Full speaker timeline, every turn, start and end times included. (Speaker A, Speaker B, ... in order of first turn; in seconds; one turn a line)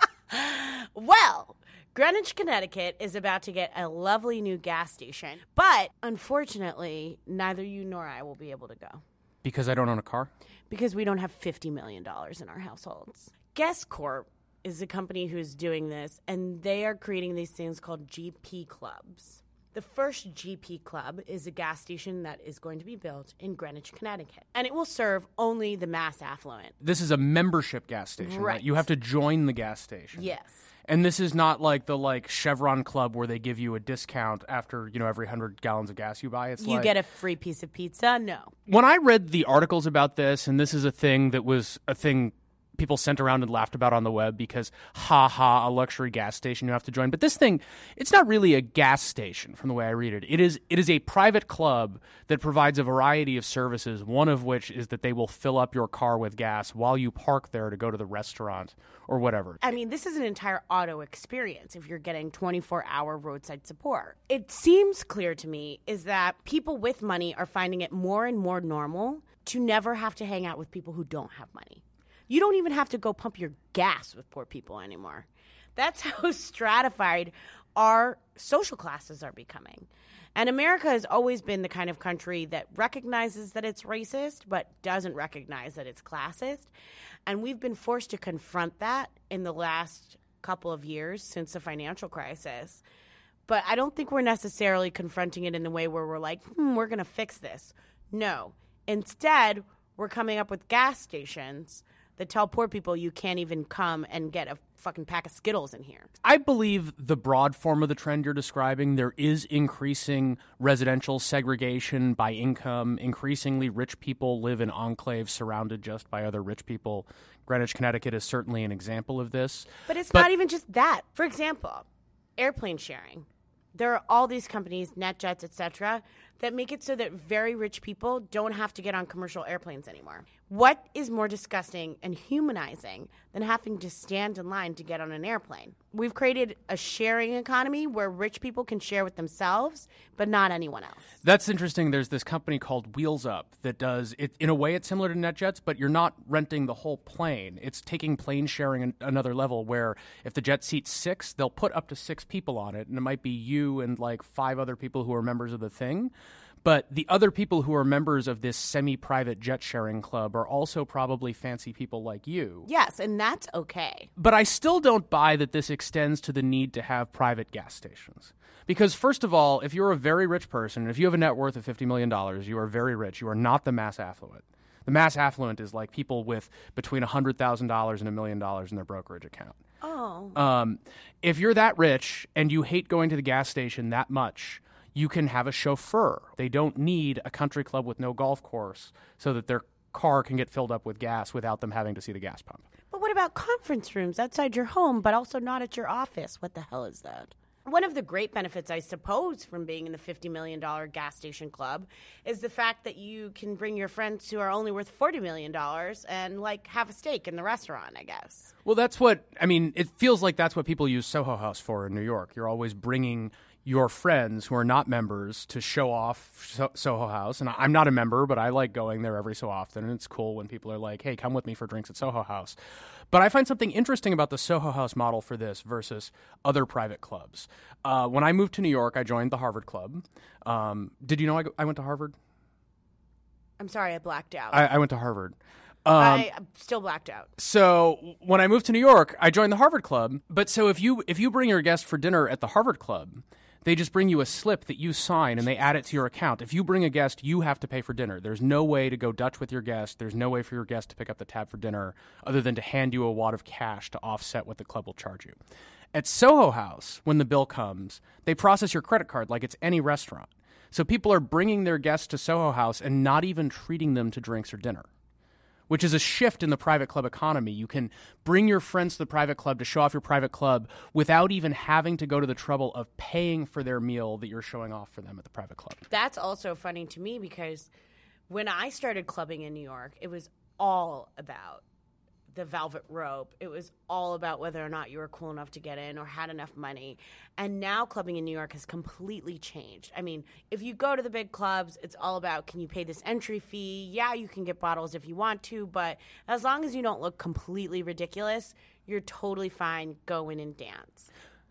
Speaker A: 0.3-9.0
Speaker B: 9.4-10.3
Speaker A: 10.7-26.8
Speaker B: 26.8-30.3
Speaker A: 28.2-28.8
Speaker A: 30.1-30.6
Speaker B: 30.9-36.9
Speaker A: 36.6-38.5
Speaker B: 38.7-59.6
Speaker A: 59.6-86.7
Speaker A: 87.3-92.8
Speaker A: 93.5-106.1
Speaker B: 106.2-120.2
Speaker A: 119.9-141.1
Speaker B: 141.2-156.1
Speaker B: 156.6-162.7
Speaker A: 162.7-164.1
Speaker B: 164.2-179.6
Speaker A: 179.8-180.4
Speaker B: 180.3-192.7
Speaker A: 192.9-208.5
Speaker B: 208.7-222.6
Speaker B: 223.1-232.2
Speaker A: 233.6-234.7
Speaker B: 234.5-236.3
Speaker A: 236.0-237.3
Speaker B: 237.4-255.4
Speaker B: 255.9-264.9
Speaker B: 265.7-275.9
Speaker A: 275.9-277.7
Speaker A: 278.3-281.6
Speaker A: 282.3-301.1